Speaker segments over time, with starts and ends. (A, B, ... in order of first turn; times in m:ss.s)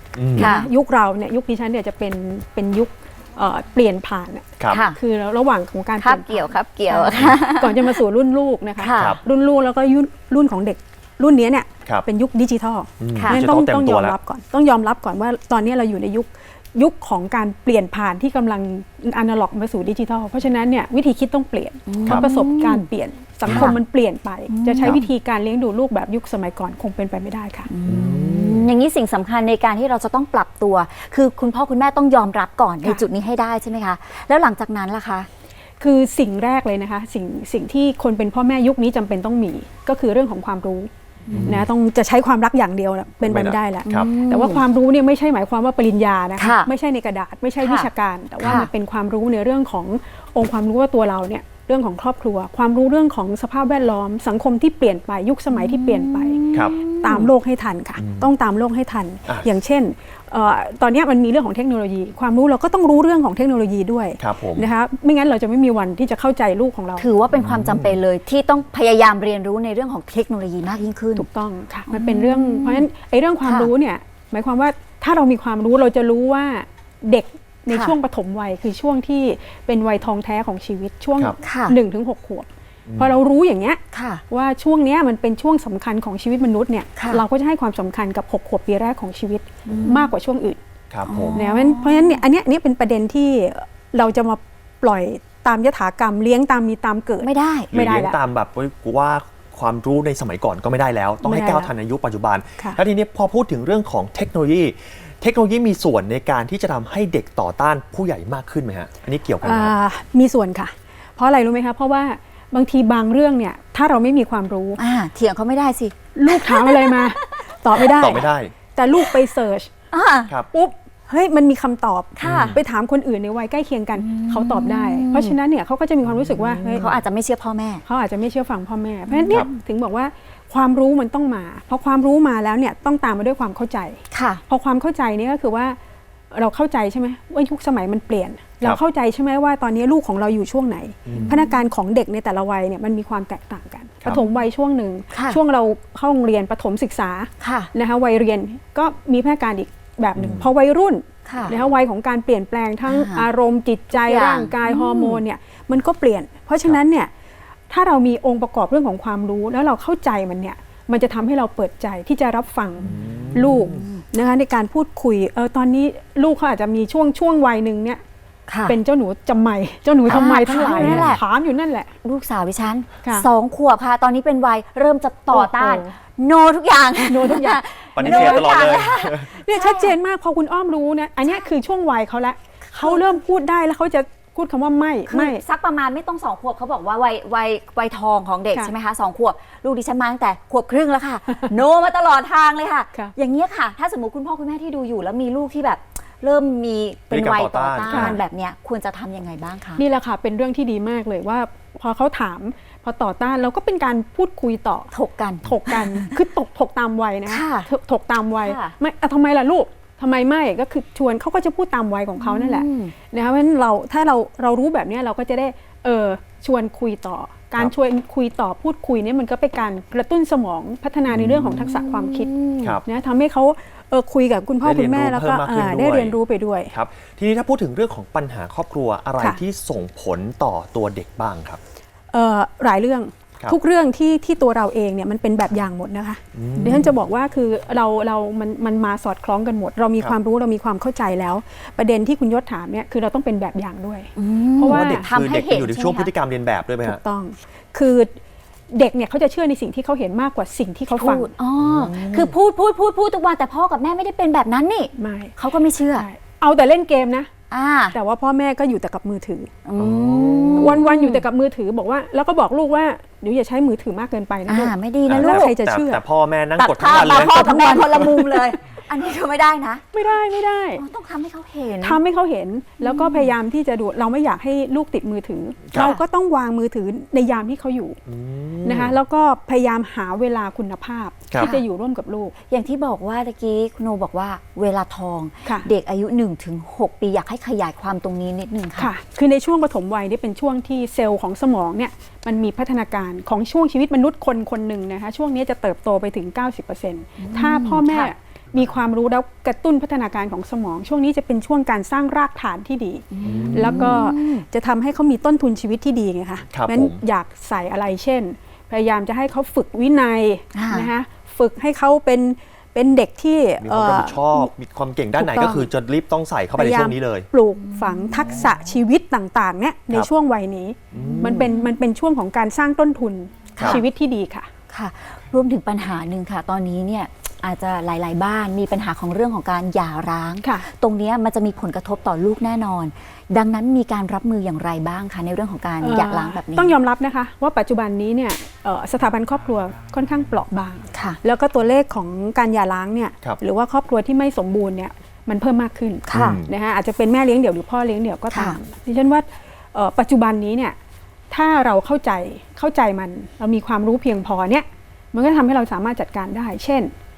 0:00.2-0:00.5 A
0:00.3-0:27.7 B
0:00.4-0:00.7 C
0:04.7-0:05.0 C
0:06.0-0:08.0 C
0:08.8-0:09.2 C
0:13.0-0:14.2 A
0:13.1-0:13.4 C
0:21.9-0:22.8 C
0:23.5-0:23.7 A
0:23.5-0:23.8 C
0:24.5-0:25.0 C
0:27.7-0:35.3 C
0:27.9-0:28.7 A
0:35.8-0:40.9 B
0:41.3-0:41.6 C
0:41.3-0:41.7 A
0:41.4-1:07.1 B
0:43.2-0:44.1 A
0:43.8-0:44.6 C
0:46.4-0:46.7 C
0:47.6-0:47.9 C
0:48.4-0:48.7 C
0:55.5-0:57.3 C
0:56.5-0:56.8 A
0:58.0-0:58.3 A
1:04.2-1:04.7 A
1:07.0-1:11.2 C
1:07.3-1:08.0 A
1:11.2-1:22.5 B
1:11.9-1:12.8 C
1:13.4-1:13.7 C
1:17.7-1:18.0 C
1:21.4-1:21.7 C
1:22.9-1:23.1 A
1:23.0-1:30.6 B
1:23.9-1:24.2 C
1:27.0-1:27.2 C
1:29.6-1:30.1 C
1:30.9-1:31.4 A
1:31.0-1:32.2 C
1:31.3-1:38.2 B
1:37.2-1:37.7 C
1:37.7-1:49.7 A
1:41.2-1:41.7 B
1:49.4-1:54.8 B
1:54.8-1:57.8 C
1:56.2-1:59.7 B
1:57.8-1:58.5 A
1:59.9-2:00.3 C
2:00.5-2:06.9 B
2:02.2-2:02.6 C
2:02.2-2:02.6 A
2:03.9-2:05.3 C
2:06.2-2:06.9 A
2:06.7-2:07.8 C
2:07.8-2:15.8 B
2:09.1-2:09.5 C
2:14.1-2:14.4 C
2:16.3-2:37.1 B
2:21.1-2:21.4 A
2:21.1-2:21.5 C
2:25.1-2:25.4 C
2:27.4-2:27.7 C
2:30.2-2:30.5 A
2:31.2-2:31.6 C
2:32.9-2:33.3 C
2:34.0-2:35.2 C
2:37.7-2:48.0 B
2:42.8-2:43.8 A
2:48.5-2:48.8 C
2:48.7-2:51.9 B
2:50.1-2:51.2 C
2:50.1-2:51.2 A
2:52.0-2:59.9 C
2:55.3-2:55.9 B
2:57.1-3:05.4 B
2:57.9-2:59.3 A
3:02.7-3:03.0 C
3:05.1-3:19.8 C
3:17.1-3:18.2 A
3:17.8-3:18.2 B
3:19.8-3:24.9 B
3:24.9-3:26.2 C
3:25.4-3:42.3 B
3:27.2-3:27.7 C
3:28.4-3:28.7 C
3:32.2-3:32.9 C
3:41.1-3:41.6 A
3:41.6-3:42.8 C
3:42.8-3:46.7 B
3:44.6-3:46.2 A
3:46.7-3:51.6 A
3:52.1-4:05.1 B
3:56.3-3:56.9 A
4:04.2-4:06.1 C
4:04.7-4:07.0 A
4:06.8-4:08.2 B
4:08.7-4:11.3 B
4:10.9-4:16.0 C
4:11.6-4:12.3 A
4:15.0-4:15.3 B
4:16.0-4:17.3 B
4:17.5-4:18.0 C
4:17.9-4:19.5 B
4:19.6-4:21.2 C
4:19.8-4:20.8 A
4:20.6-4:26.0 B
4:24.5-4:25.5 C
4:25.1-4:28.1 A
4:26.6-4:29.8 C
4:27.0-4:28.2 B
4:29.9-4:30.8 B
4:30.8-4:32.0 C
4:31.8-4:38.0 B
4:32.8-4:33.3 C
4:35.7-4:36.0 C
4:38.1-4:39.0 A
4:38.6-4:42.3 B
4:42.5-4:48.9 C
4:48.8-5:14.5 B
4:57.2-4:58.1 C
5:03.1-5:04.4 C
5:03.2-5:04.0 A
5:06.5-5:07.0 A
5:10.5-5:10.9 C
5:13.6-5:17.3 A
5:15.2-5:15.7 B
5:16.6-5:24.5 B
5:17.6-5:18.5 C
5:20.9-5:21.5 A
5:21.0-5:21.7 C
5:23.6-5:23.8 C
5:24.7-5:36.7 C
5:35.8-5:50.8 B
5:40.9-5:41.2 C
5:46.1-5:46.4 C
5:46.1-5:46.5 A
5:48.3-5:48.6 C
5:51.3-5:56.9 B